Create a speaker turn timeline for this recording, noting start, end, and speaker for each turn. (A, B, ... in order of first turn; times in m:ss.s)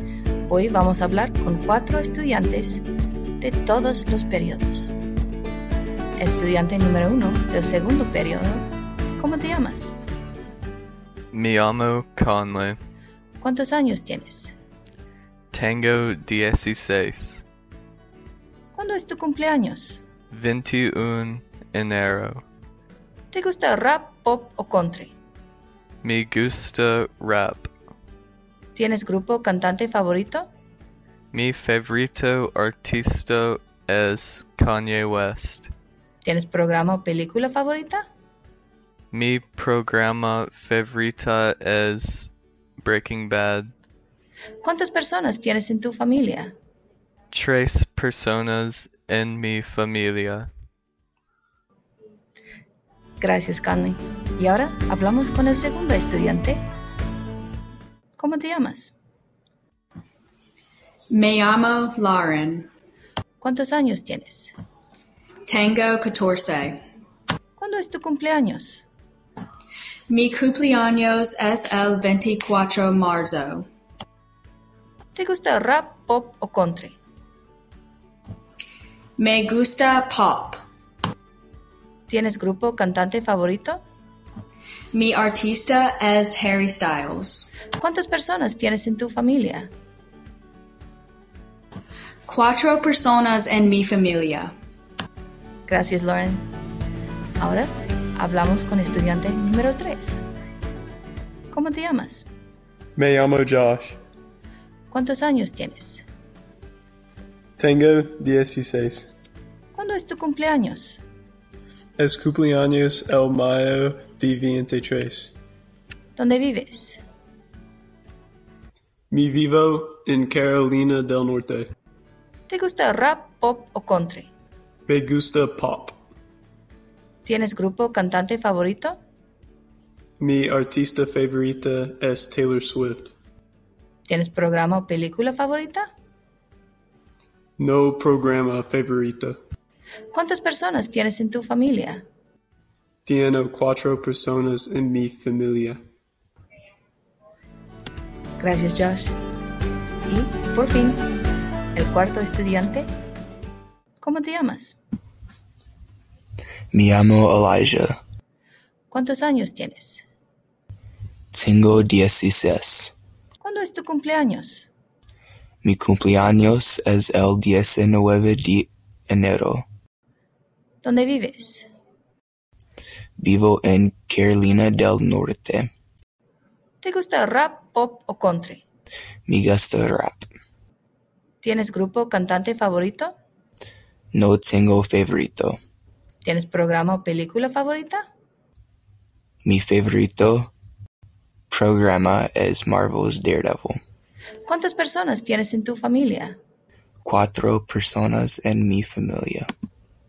0:00.4-0:02.8 A
0:03.4-0:04.9 A
0:06.2-0:09.9 A
0:11.3-0:12.8 B
0:13.4-0:14.5 A
0:15.5-0:17.4 B
0:18.7-0:20.0 A
0:20.3-0:22.4 B
0:23.3-0:25.1 A
0:26.0-0:27.7 B
0:28.8-0:30.5 A
0:31.3-0:35.7 B
0:36.2-0:38.0 A
0:39.1-0:42.3 B
0:42.8-0:43.7 B
0:44.6-0:46.5 A
0:47.3-0:50.5 B
0:53.2-0:56.6 A
0:58.2-0:58.9 A
1:01.1-1:02.7 C
1:03.4-1:04.6 A
1:05.4-1:06.8 C
1:07.6-1:08.8 A
1:10.1-1:13.7 C
1:15.1-1:17.0 A
1:19.2-1:20.6 C
1:22.1-1:23.8 A
1:24.9-1:27.5 C
1:27.7-1:29.7 A
1:32.3-1:34.5 C
1:35.7-1:36.4 A
1:37.4-1:40.2 A
1:41.5-1:42.3 A
1:43.0-1:44.0 D
1:44.9-1:46.0 A
1:47.6-1:49.1 D
1:49.7-1:51.0 A
1:52.0-1:55.4 D
1:56.2-1:57.0 A
1:59.1-2:01.7 D
2:02.5-2:04.3 A
2:04.9-2:06.0 D
2:07.2-2:09.0 A
2:10.2-2:13.1 D
2:14.1-2:15.9 A
2:17.6-2:19.4 D
2:20.1-2:22.0 A
2:23.0-2:25.8 D
2:28.4-2:29.2 A
2:30.1-2:31.0 A
2:31.7-2:32.9 A
2:34.0-2:34.8 A
2:36.7-2:38.0 E
2:38.9-2:40.0 A
2:41.3-2:42.9 E
2:43.4-2:44.7 A
2:45.6-2:49.6 E
2:50.8-2:51.7 A
2:53.2-2:55.7 E
2:56.8-2:58.6 A
2:59.2-3:00.3 E
3:01.4-3:03.1 A
3:04.1-3:05.6 E
3:06.2-3:08.0 A
3:09.4-3:10.5 E
3:11.5-3:13.8 E
3:14.4-3:16.4 A
3:17.0-3:19.5 E